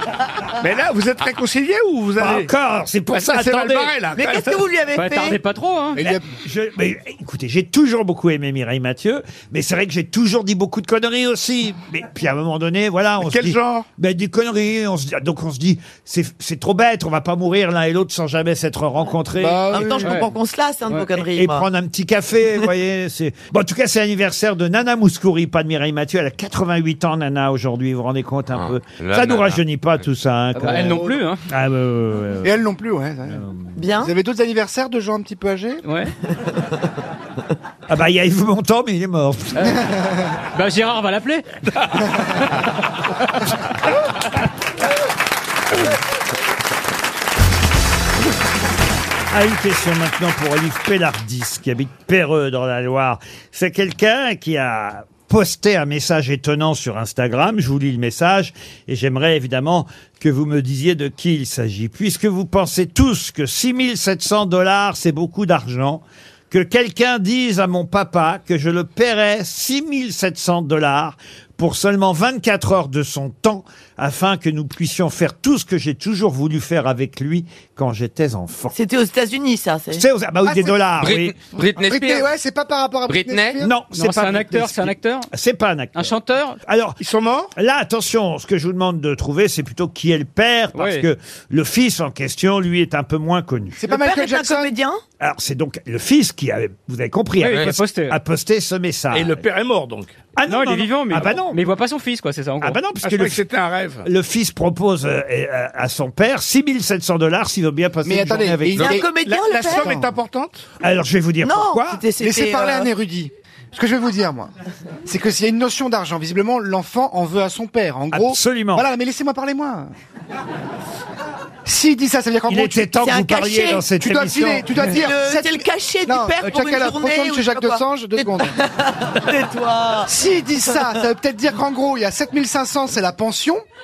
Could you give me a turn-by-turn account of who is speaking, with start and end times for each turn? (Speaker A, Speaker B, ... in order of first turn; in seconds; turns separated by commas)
Speaker A: 0.6-2.5, Speaker B: 2.2-4.0, Speaker A: 3.1-4.7, Speaker C: 4.1-5.4, Speaker D: 4.9-6.0, Speaker B: 6.0-19.8, Speaker A: 13.3-13.9, Speaker E: 19.4-20.3, Speaker C: 19.7-21.6, Speaker B: 21.2-32.6, Speaker F: 28.5-29.6, Speaker D: 30.5-31.5, Speaker E: 30.6-30.9, Speaker E: 32.4-33.4, Speaker B: 33.3-33.8, Speaker C: 33.8-34.1, Speaker E: 34.0-35.8, Speaker D: 35.8-36.1, Speaker B: 37.9-39.8, Speaker D: 39.5-39.8, Speaker E: 39.7-40.3, Speaker D: 40.5-41.5, Speaker B: 49.3-78.8, Speaker C: 78.7-80.1, Speaker B: 79.9-81.3, Speaker E: 80.5-80.7, Speaker F: 81.0-82.3, Speaker E: 81.8-83.7, Speaker F: 83.1-83.6, Speaker B: 83.6-86.1, Speaker D: 83.9-85.3, Speaker D: 86.0-86.6, Speaker B: 86.7-87.0, Speaker A: 87.0-87.5, Speaker B: 87.6-93.8, Speaker D: 90.8-91.1, Speaker E: 93.8-94.8, Speaker C: 93.8-95.0, Speaker B: 95.2-99.4, Speaker D: 97.4-98.2, Speaker A: 99.1-100.1, Speaker B: 100.4-101.6, Speaker D: 100.5-102.8, Speaker B: 102.6-103.4, Speaker A: 103.0-104.1, Speaker B: 104.0-109.0, Speaker E: 108.0-109.2, Speaker C: 108.8-109.8, Speaker A: 108.8-110.6, Speaker E: 109.7-110.1, Speaker B: 110.8-112.0, Speaker C: 111.4-112.9, Speaker E: 112.2-114.5, Speaker E: 115.1-119.9, Speaker B: 118.1-118.9, Speaker E: 121.7-122.9, Speaker B: 122.5-124.9, Speaker C: 123.0-123.9, Speaker E: 124.0-128.6, Speaker C: 124.8-131.0, Speaker E: 130.1-133.6